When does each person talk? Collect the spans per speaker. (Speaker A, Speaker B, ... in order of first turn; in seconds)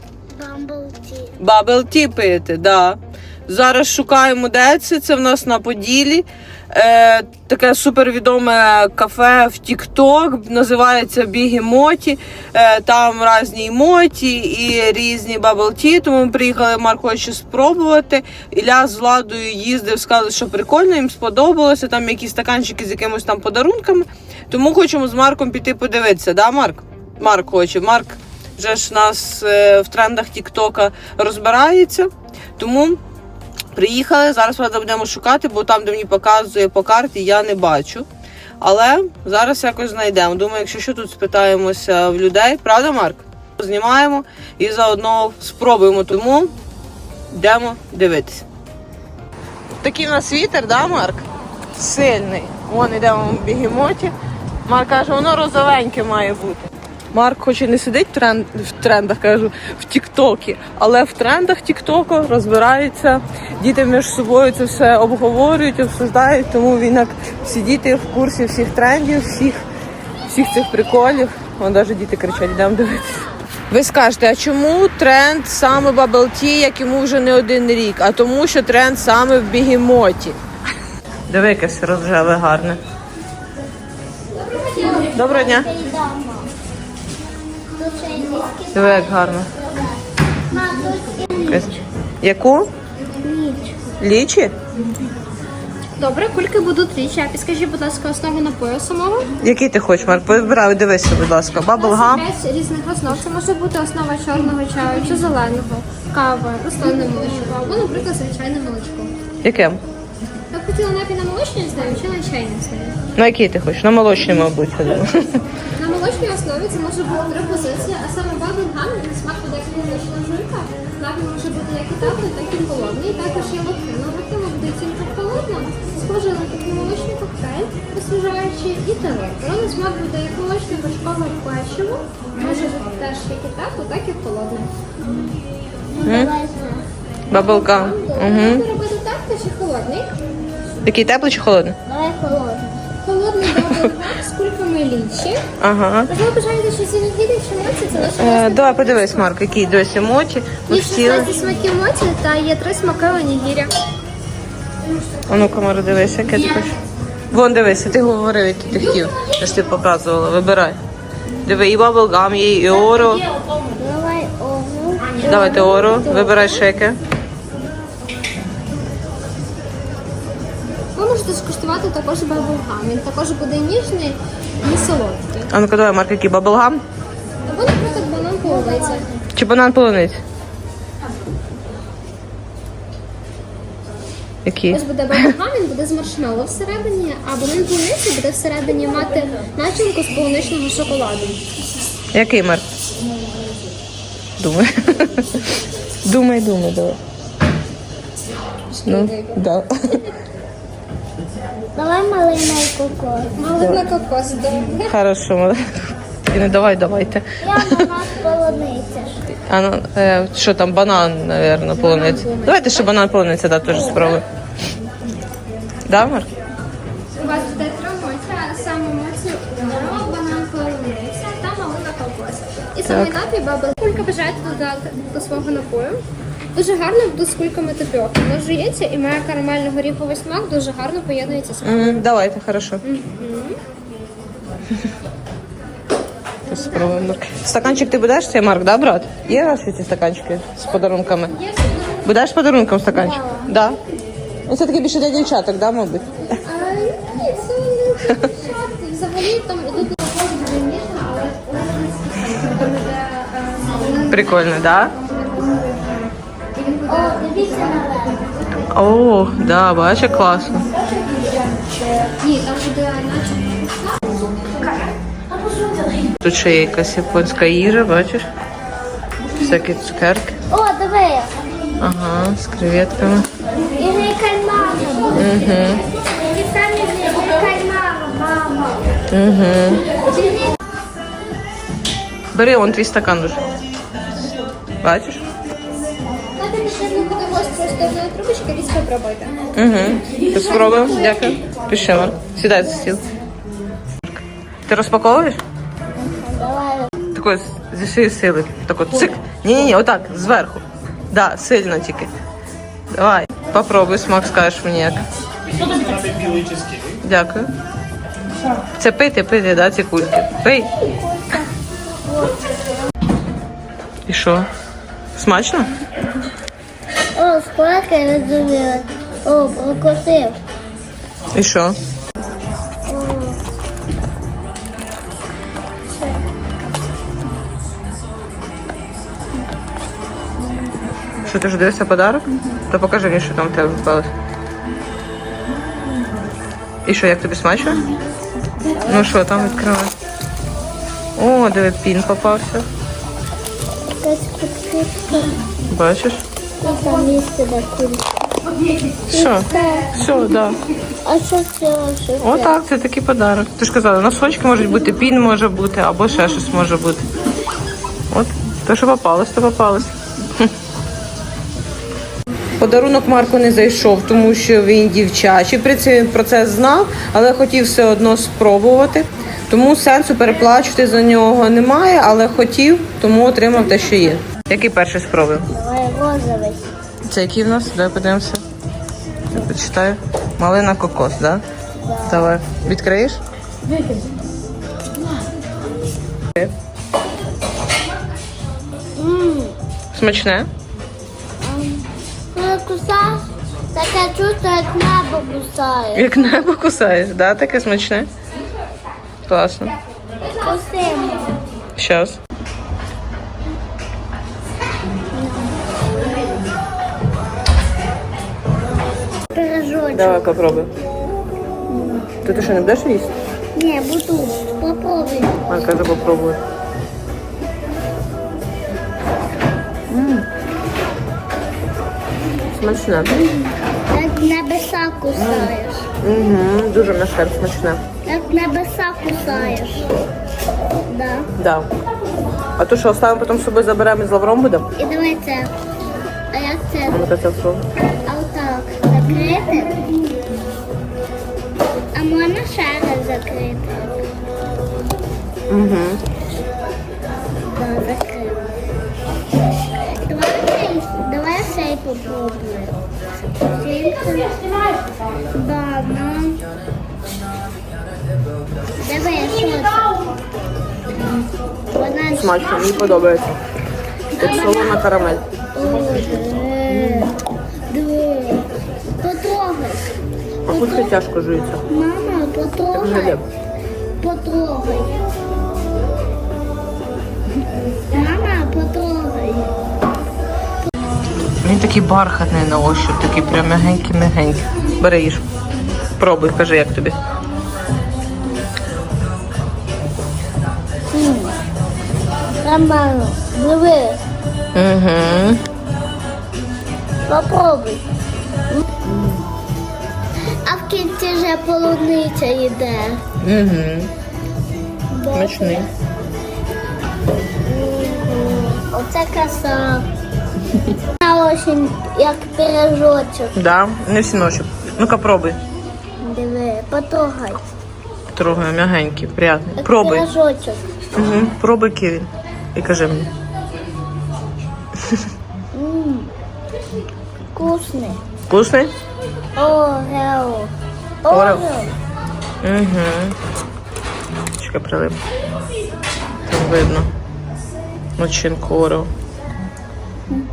Speaker A: 0.4-1.4, 84.4-86.5, 87.7-91.8, 93.2-93.9, 135.0-135.3, 135.9-136.8, 141.8-142.8, 163.7-165.9, 178.3-179.1, 201.7-203.4, 207.4-209.2, 256.9-258.2, 270.5-271.3, 273.8-278.8, 296.0-296.9, 311.1-311.4, 312.0-312.4, 317.1-320.4, 322.9-323.4, 325.9-326.2, 338.7-339.7, 344.0-345.3, 346.6-348.2, 349.1-349.9, 351.0-352.6, 375.5-376.7, 381.8-382.3, 388.9-389.6, 391.4-393.2, 393.7-396.2, 400.3-401.4, 405.1-405.6, 409.3-410.3, 411.7-412.1, 413.5-415.6, 423.1-425.9, 428.1-429.9, 430.9-431.3, 434.8-435.5, 436.3-437.0, 438.1-439.8, 441.9-444.0, 447.4-448.5, 450.0-452.8, 453.4-454.4, 455.3-456.4, 458.8-459.9, 461.7-462.7, 464.2-464.9, 465.5-467.1, 467.7-468.5, 469.0-469.9, 470.5-471.0, 471.7-473.2, 474.0-475.0, 477.9-479.6, 490.9-491.4, 492.4-494.0, 497.1-497.8, 498.5-499.2, 500.4-503.0, 504.9-505.7, 507.4-509.8, 511.0-513.3, 516.0-517.4, 519.6-520.6, 525.5-526.1, 527.3-528.0, 529.4-530.5, 531.0-531.7
Speaker B: 1.4-33.0, 33.7-38.1, 38.6-46.5, 47.3-48.5, 49.8-51.2, 51.8-54.1, 54.7-69.6, 70.3-80.4, 81.3-82.8, 85.1-85.7, 88.7-89.5, 92.2-92.7, 94.0-94.5, 99.4-102.2, 109.4-109.8, 113.2-115.4, 136.0-136.3, 137.3-138.6, 140.8-141.8, 143.6-143.9, 145.6-146.1, 148.2-151.3, 155.3-156.8, 157.3-160.8, 161.4-163.2, 165.3-167.0, 175.5-176.8, 179.3-180.2, 184.4-185.3, 192.1-192.6, 194.4-195.5, 196.0-197.0, 198.8-200.0, 203.6-203.8, 204.9-205.6, 206.3-207.9, 209.5-214.2, 215.9-216.3, 222.9-223.2, 231.6-232.8, 236.5-241.3, 242.0-243.8, 244.5-246.1, 254.1-254.9, 258.7-260.6, 266.2-268.2, 269.4-270.4, 271.8-273.3, 275.1-275.8, 279.1-279.8, 282.3-283.5, 284.8-285.2, 289.5-293.1, 294.7-295.4, 297.1-302.1, 302.9-305.0, 307.0-307.5, 308.8-310.7, 314.1-314.5, 315.1-315.7, 321.3-321.7, 331.2-334.1, 336.8-337.8, 338.9-339.9, 341.2-342.6, 345.7-346.2, 349.1-350.6, 352.2-357.0, 358.1-360.5, 362.6-375.5, 377.1-378.4, 379.3-381.4, 382.1-383.2, 389.9-390.5, 395.9-398.1, 399.3-399.7, 401.8-402.2, 409.9-410.7, 412.2-413.1, 415.5-416.4, 419.9-420.2, 422.5-423.1, 425.2-427.8, 431.4-431.7, 432.6-434.7, 436.9-437.6, 445.5-446.0, 462.1-463.4, 464.2-465.2, 470.5-471.6, 472.7-473.2, 481.4-485.2, 486.0-487.0, 494.5-495.4, 503.2-503.9, 505.1-505.7, 513.3-515.4, 518.1-520.0, 520.9-523.1, 528.3-528.7, 531.1-531.4, 532.4-533.1, 534.3-535.0, 536.3-536.9, 538.0-538.9
Speaker C: 96.0-99.3, 101.7-109.1, 110.5-113.0, 115.7-134.7, 137.3-140.1, 143.0-145.4, 146.1-149.3, 150.7-153.7, 165.1-166.6, 170.9-175.5, 177.5-179.1, 184.7-191.4, 198.7-199.4, 203.4-204.9, 211.8-212.9, 217.2-226.0, 226.5-231.9, 232.8-233.6, 241.3-242.1, 246.4-257.9, 261.8-264.7, 286.4-289.4, 290.6-290.9